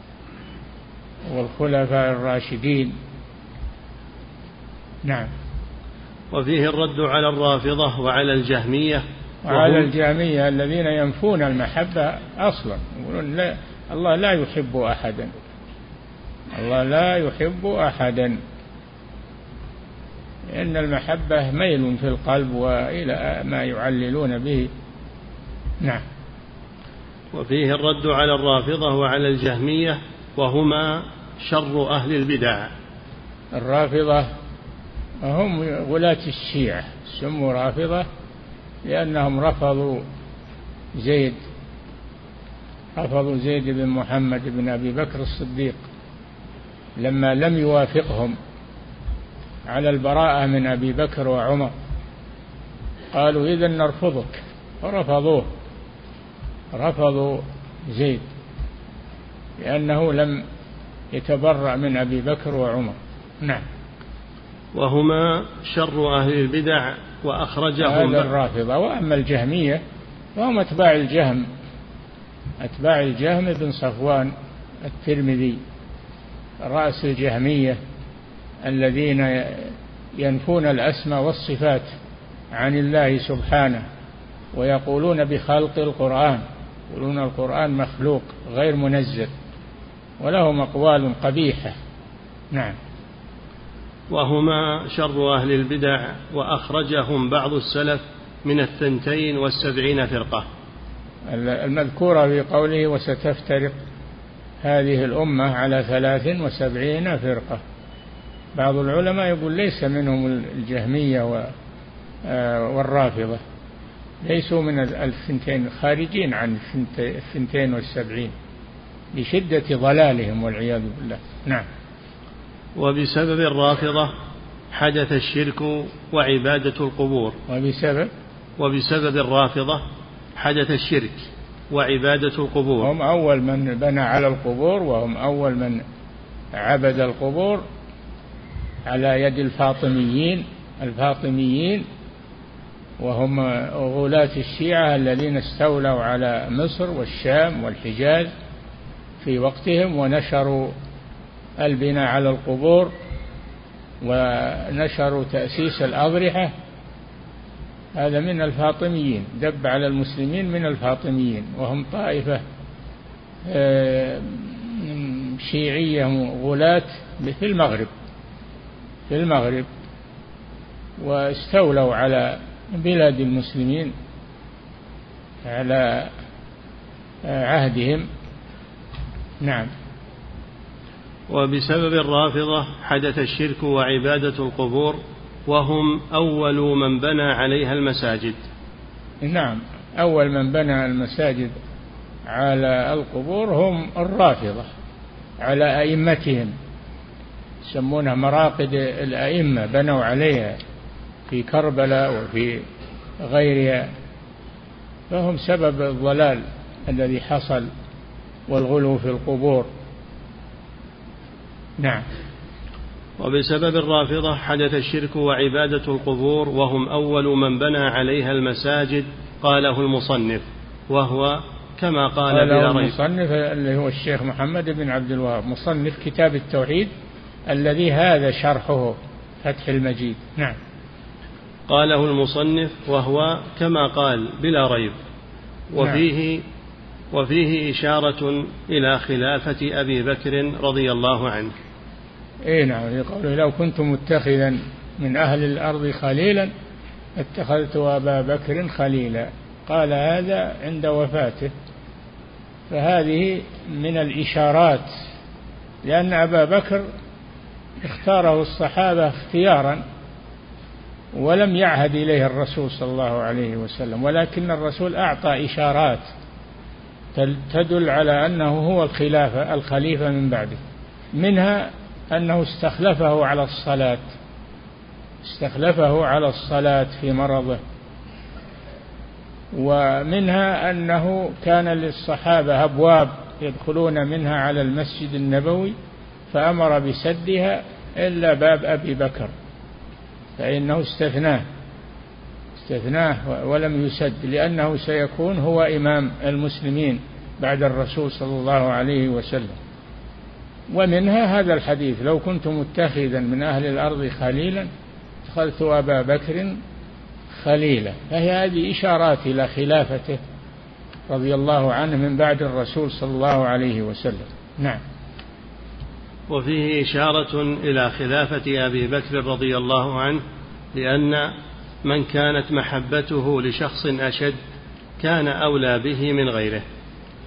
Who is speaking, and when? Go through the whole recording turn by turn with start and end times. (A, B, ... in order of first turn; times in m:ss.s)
0:01.3-0:03.0 A
0:05.0-0:05.3 A
0:06.3-0:09.9 B
0:09.4-0:15.3 A
0:16.5-0:18.4 A
0:20.5-0:24.7 A
0:27.3-0:32.7 B
0:33.5-0:34.3 A
0:35.2-0:38.0 A
0:38.8-0:40.0 A
0:41.0-0:41.4 A
0:43.0-0:45.8 A
0:47.0-0:48.4 A
0:49.7-0:51.7 A
0:53.1-0:55.5 A
0:56.7-0:58.3 A
0:59.6-1:00.4 A
1:01.1-1:03.6 A
1:04.7-1:08.3 B
1:07.8-1:09.8 A
1:10.3-1:11.4 A
1:12.6-1:14.3 A
1:14.8-1:15.6 A
1:16.6-1:17.8 A
1:18.6-1:21.9 A
1:22.5-1:23.8 A
1:24.5-1:29.3 A
1:30.2-1:31.8 A
1:34.1-1:40.4 B
1:41.3-1:43.8 A
1:44.6-1:47.6 A
1:48.5-1:51.5 A
1:52.2-1:53.4 A
1:54.2-1:58.3 A
1:59.1-2:01.6 A
2:02.8-2:04.1 B
2:04.7-2:07.4 B
2:07.5-2:08.1 A
2:08.6-2:09.8 B
2:10.4-2:12.9 B
2:12.8-2:15.8 A
2:16.5-2:17.6 A
2:18.8-2:21.8 A
2:23.0-2:28.3 A
2:29.2-2:30.7 A
2:31.6-2:32.9 A
2:34.0-2:36.5 A
2:38.0-2:42.4 A
2:43.4-2:47.9 A
2:49.1-2:49.7 A
2:51.0-2:53.9 A
2:55.4-2:56.1 A
2:57.2-2:58.1 A
2:59.4-2:59.7 A
3:01.3-3:08.4 B
3:09.2-3:11.6 A
3:12.3-3:14.7 A
3:15.4-3:16.5 A
3:17.6-3:20.6 A
3:21.3-3:22.6 A
3:23.2-3:23.9 A
3:25.1-3:27.7 A
3:28.5-3:29.7 A
3:33.2-3:43.0 B
3:42.3-3:46.9 A
3:47.5-3:50.6 A
3:51.7-3:54.9 B
3:55.7-3:56.4 B
3:57.1-4:01.5 B
4:02.4-4:06.5 A
4:07.2-4:11.5 A
4:12.7-4:14.9 A
4:15.8-4:16.9 A
4:17.8-4:19.8 A
4:21.1-4:26.1 A
4:27.1-4:30.6 A
4:31.2-4:34.0 A
4:35.2-4:37.6 A
4:39.5-4:45.7 A
4:46.3-4:49.3 A
4:50.4-4:51.4 A
4:52.6-4:59.6 A
5:00.7-5:04.7 A
5:05.2-5:06.6 A
5:07.3-5:10.2 A
5:11.1-5:14.8 A
5:16.3-5:20.2 B
5:20.7-5:21.3 B
5:21.8-5:24.4 B
5:25.0-5:26.6 B